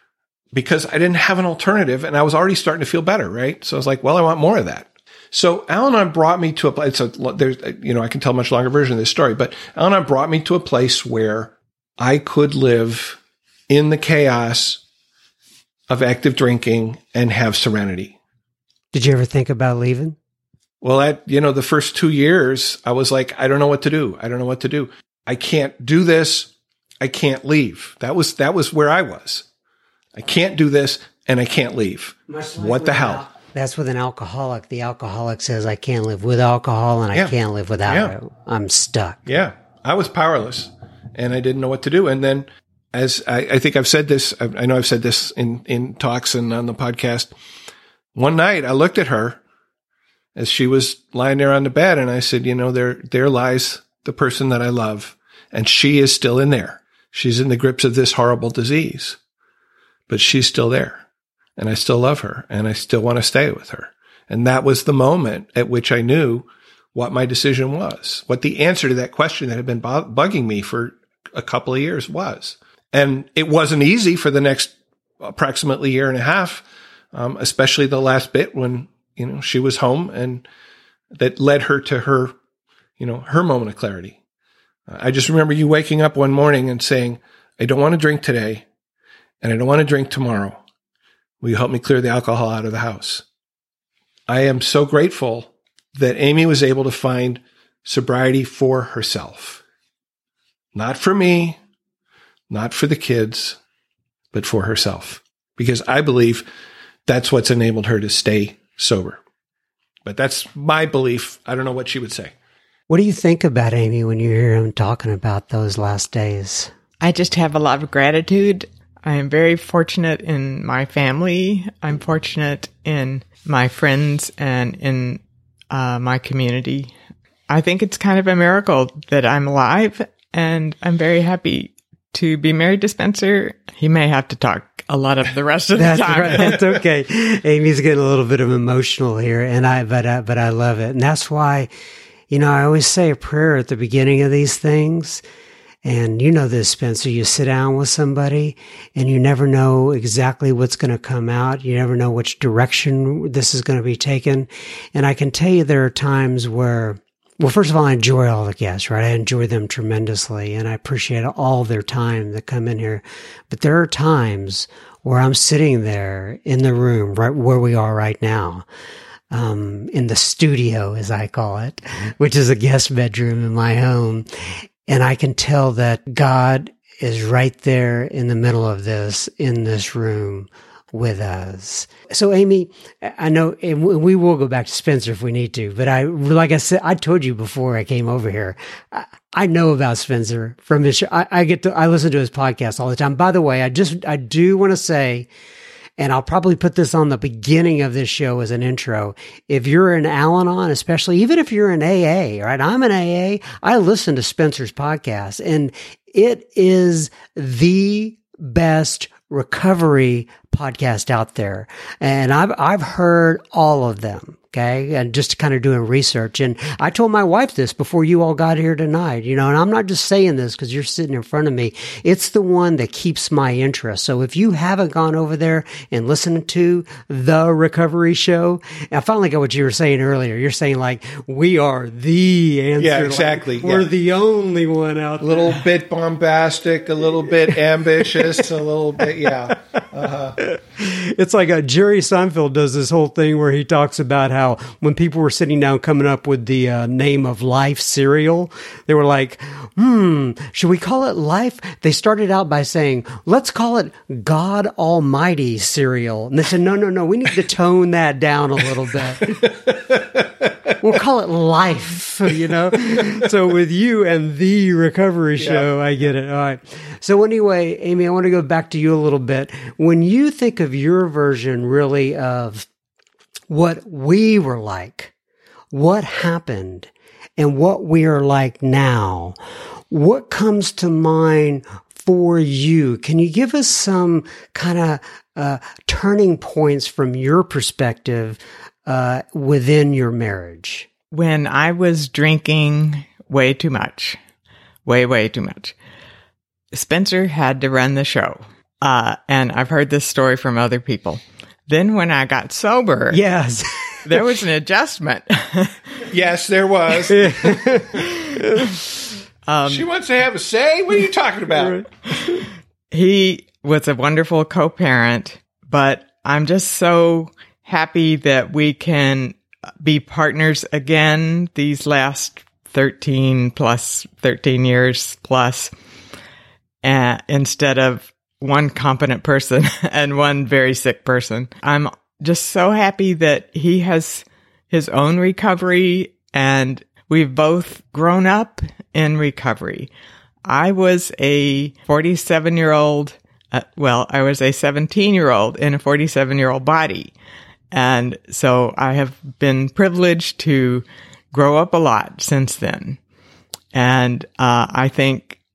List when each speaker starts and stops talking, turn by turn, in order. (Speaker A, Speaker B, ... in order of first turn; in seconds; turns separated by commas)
Speaker A: 0.5-14.8, Speaker A: 15.9-18.1, Speaker B: 18.9-20.2, Speaker A: 20.8-29.4, Speaker A: 30.1-33.3, Speaker B: 32.3-39.2, Speaker A: 37.9-38.1, Speaker A: 39.3-47.3, Speaker A: 48.1-49.4, Speaker A: 50.4-59.2, Speaker A: 60.1-61.0, Speaker A: 61.6-80.4, Speaker A: 81.1-82.3, Speaker A: 83.0-84.2, Speaker A: 84.9-88.6, Speaker A: 89.4-90.6, Speaker A: 91.4-93.2, Speaker A: 94.3-99.6, Speaker A: 100.7-101.6, Speaker A: 102.5-103.6, Speaker A: 104.3-106.5, Speaker A: 107.1-109.2, Speaker A: 110.0-112.3, Speaker B: 112.9-116.7, Speaker C: 117.0-125.2, Speaker C: 125.7-126.9, Speaker C: 127.5-136.6, Speaker B: 135.7-141.7, Speaker B: 142.3-145.2, Speaker B: 145.8-168.7, Speaker B: 169.3-195.3, Speaker B: 196.0-235.6, Speaker A: 232.8-233.9, Speaker A: 235.2-240.4, Speaker B: 240.4-259.6, Speaker A: 259.3-260.7, Speaker B: 260.8-272.7, Speaker A: 265.4-265.7, Speaker B: 273.5-275.1, Speaker B: 275.7-279.4, Speaker B: 279.9-290.9, Speaker C: 291.1-294.2, Speaker C: 294.9-295.7, Speaker C: 296.7-303.2, Speaker B: 303.1-304.3, Speaker C: 304.0-305.8, Speaker A: 306.1-307.7, Speaker B: 307.1-308.7, Speaker C: 308.0-308.8, Speaker C: 309.5-309.9, Speaker A: 309.6-311.9, Speaker C: 312.9-325.7, Speaker C: 326.8-339.9, Speaker C: 340.4-347.1, Speaker C: 347.7-353.0, Speaker C: 353.7-355.4